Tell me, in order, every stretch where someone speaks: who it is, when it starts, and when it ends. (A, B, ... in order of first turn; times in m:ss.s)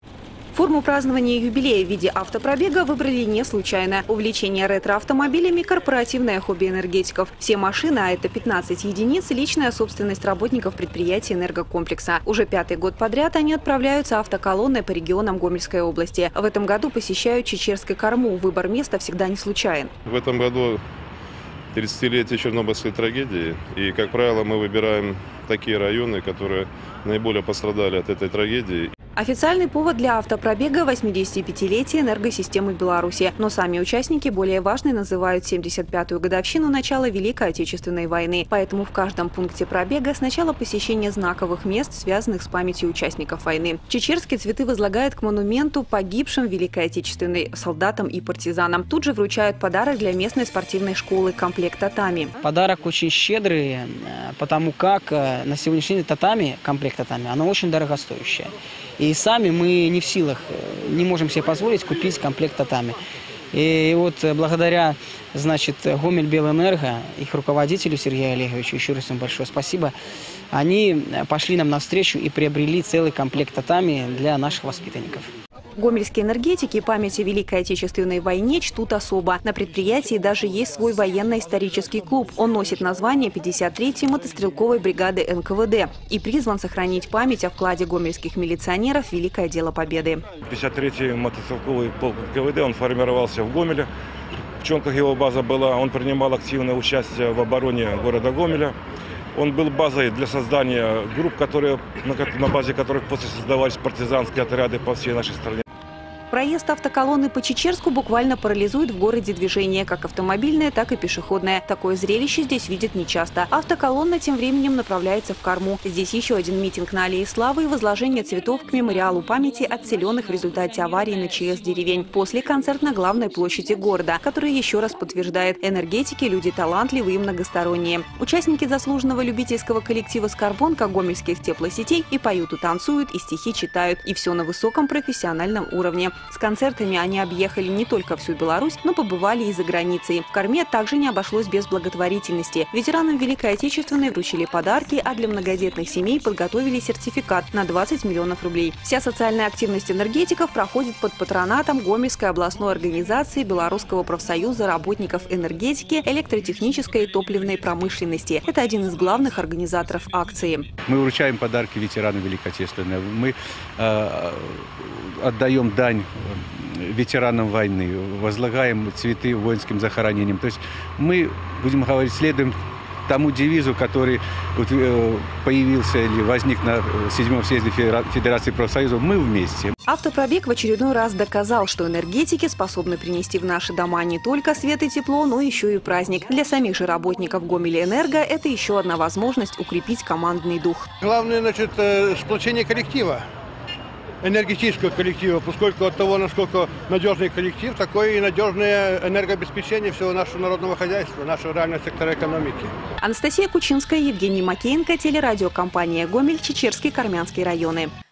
0:00.5-0:19.9 A
0:20.1-0:20.8 B
0:21.7-0:28.9 B
0:29.2-0:52.3 A
0:52.4-1:03.0 C
1:03.5-1:09.9 C
1:10.5-1:15.3 C
1:15.8-1:30.2 A
1:30.5-1:33.9 D
1:34.6-1:38.7 D
1:39.3-1:45.6 D
1:46.3-2:40.7 A
2:40.8-2:52.6 E
2:53.1-2:59.7 E
2:59.9-3:10.8 A
3:11.0-3:13.2 F
3:14.2-3:22.7 F
3:23.0-3:27.9 A